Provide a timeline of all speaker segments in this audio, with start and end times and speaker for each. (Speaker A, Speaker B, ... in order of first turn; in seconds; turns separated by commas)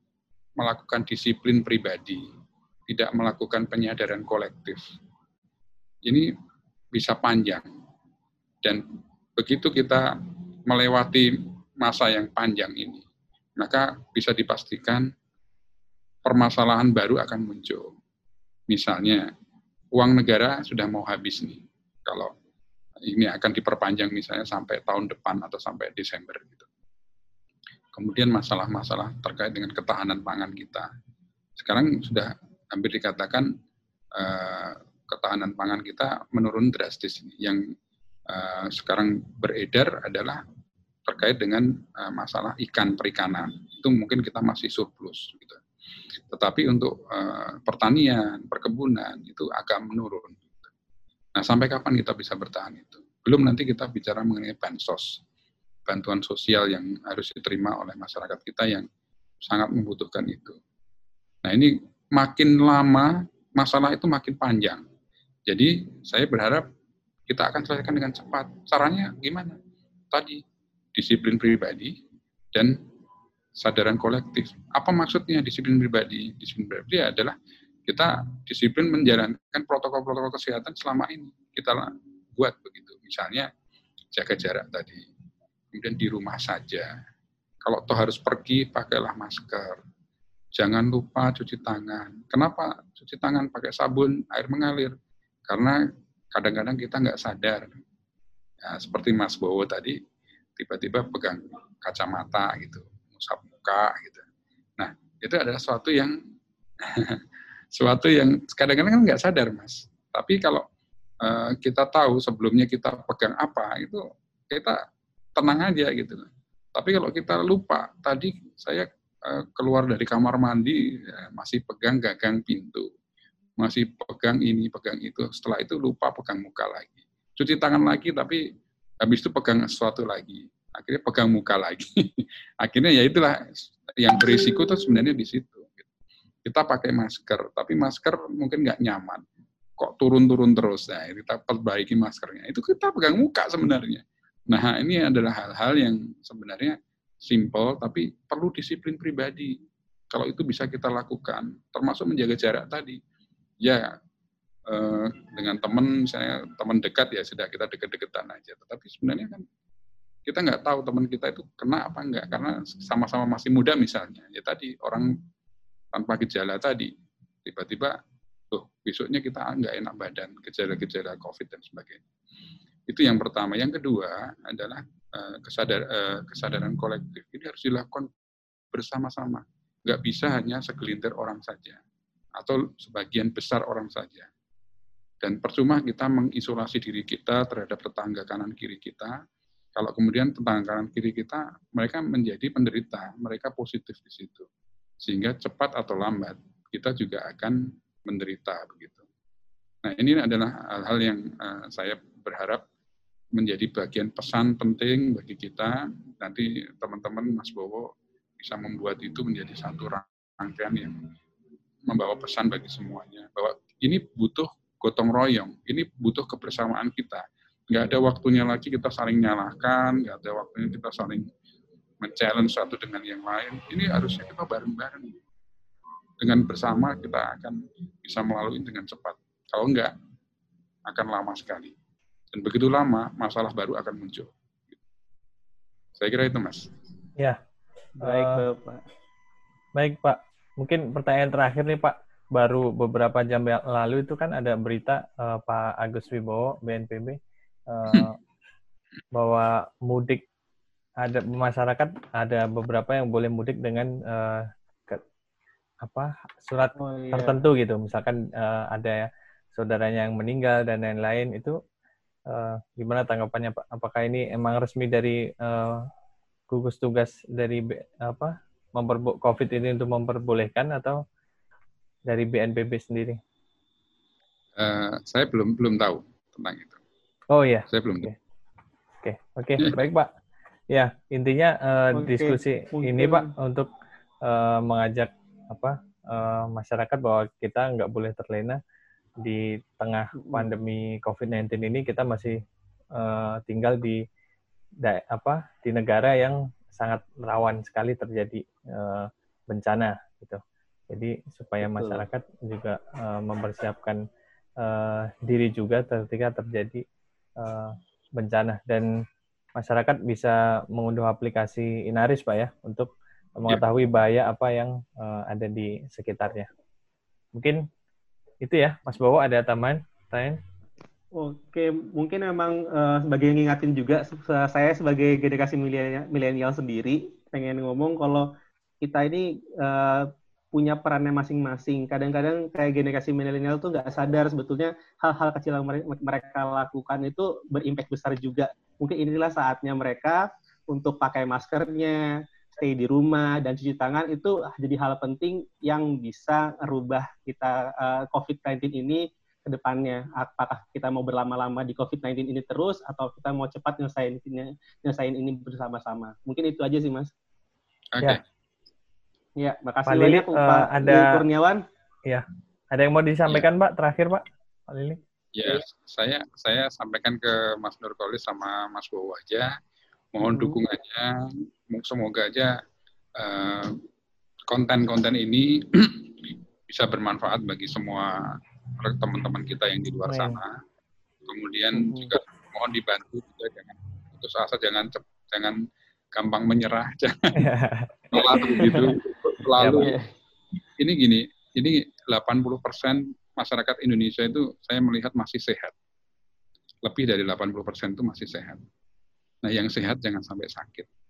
Speaker A: 0.6-2.2, Speaker A: 2.9-4.9, Speaker A: 6.9-7.7, Speaker A: 9.4-10.1, Speaker A: 10.7-13.1, Speaker A: 13.6-15.1, Speaker A: 16.2-17.9, Speaker A: 18.7-19.3, Speaker A: 19.9-22.3, Speaker A: 23.1-26.7, Speaker A: 27.9-30.9, Speaker A: 31.6-33.5, Speaker A: 34.1-37.6, Speaker A: 38.3-40.4, Speaker A: 41.1-45.6, Speaker A: 46.3-50.7, Speaker A: 51.4-55.2, Speaker A: 55.9-58.9, Speaker A: 59.4-60.6, Speaker A: 61.4-64.8, Speaker A: 65.5-66.7, Speaker A: 67.3-69.6, Speaker A: 70.1-70.4, Speaker A: 70.9-72.0, Speaker A: 73.6-83.5, Speaker A: 84.2-85.0, Speaker A: 85.7-86.9, Speaker A: 87.6-89.8, Speaker A: 90.6-94.9, Speaker A: 95.5-95.8, Speaker A: 96.3-97.8, Speaker A: 98.6-100.0, Speaker A: 100.6-104.2, Speaker A: 104.8-106.2, Speaker A: 106.8-107.2, Speaker A: 107.7-110.6, Speaker A: 111.2-114.8, Speaker A: 115.4-122.9, Speaker A: 123.6-128.4, Speaker A: 129.0-135.9, Speaker A: 136.4-139.2, Speaker A: 139.8-149.6, Speaker A: 150.1-153.0, Speaker A: 153.6-154.0, Speaker A: 154.7-159.4, Speaker A: 160.3-165.1, Speaker A: 165.9-166.9, Speaker A: 167.4-168.0, Speaker A: 168.5-172.0, Speaker A: 172.9-178.1, Speaker A: 178.7-181.8, Speaker A: 182.4-184.3, Speaker A: 185.2-189.2, Speaker A: 189.8-194.5, Speaker A: 195.0-199.1, Speaker A: 199.8-202.6, Speaker A: 203.3-211.0, Speaker A: 211.9-221.2, Speaker A: 222.0-225.2, Speaker A: 226.2-229.9, Speaker A: 230.9-231.7, Speaker A: 232.3-234.3, Speaker A: 236.0-236.7, Speaker B: 238.0-238.8, Speaker C: 238.0-238.4, Speaker C: 239.8-247.2, Speaker C: 247.7-248.2, Speaker C: 249.1-250.2, Speaker C: 251.0-255.0, Speaker C: 255.8-261.6, Speaker B: 256.8-257.4, Speaker C: 262.3-265.9, Speaker C: 266.5-271.0, Speaker C: 272.1-273.2, Speaker A: 274.6-276.8, Speaker C: 277.3-278.1, Speaker A: 277.7-278.1, Speaker C: 279.0-280.1, Speaker C: 280.7-283.7, Speaker B: 281.9-283.3, Speaker C: 284.2-288.6, Speaker C: 289.2-292.4, Speaker B: 290.2-290.5, Speaker C: 293.0-294.0, Speaker C: 294.8-304.0, Speaker B: 301.6-302.0, Speaker C: 304.6-306.8, Speaker C: 307.4-308.9, Speaker C: 309.6-316.5, Speaker C: 317.4-317.6, Speaker C: 318.4-320.4, Speaker B: 321.2-328.3, Speaker B: 328.8-342.0, Speaker B: 342.5-357.1, Speaker A: 357.9-358.2, Speaker B: 359.4-361.6, Speaker C: 359.9-361.2, Speaker C: 362.1-365.0, Speaker A: 365.4-369.5, Speaker A: 370.1-372.5, Speaker B: 370.3-370.6, Speaker A: 373.2-373.8, Speaker A: 374.5-380.6, Speaker C: 380.1-380.4, Speaker A: 381.2-385.6, Speaker B: 381.8-382.1, Speaker A: 386.1-387.4, Speaker C: 387.4-388.9, Speaker A: 388.1-389.9, Speaker B: 388.6-388.9, Speaker C: 389.6-389.9, Speaker B: 389.8-390.0, Speaker A: 390.8-395.8, Speaker A: 396.9-398.6, Speaker A: 399.4-400.9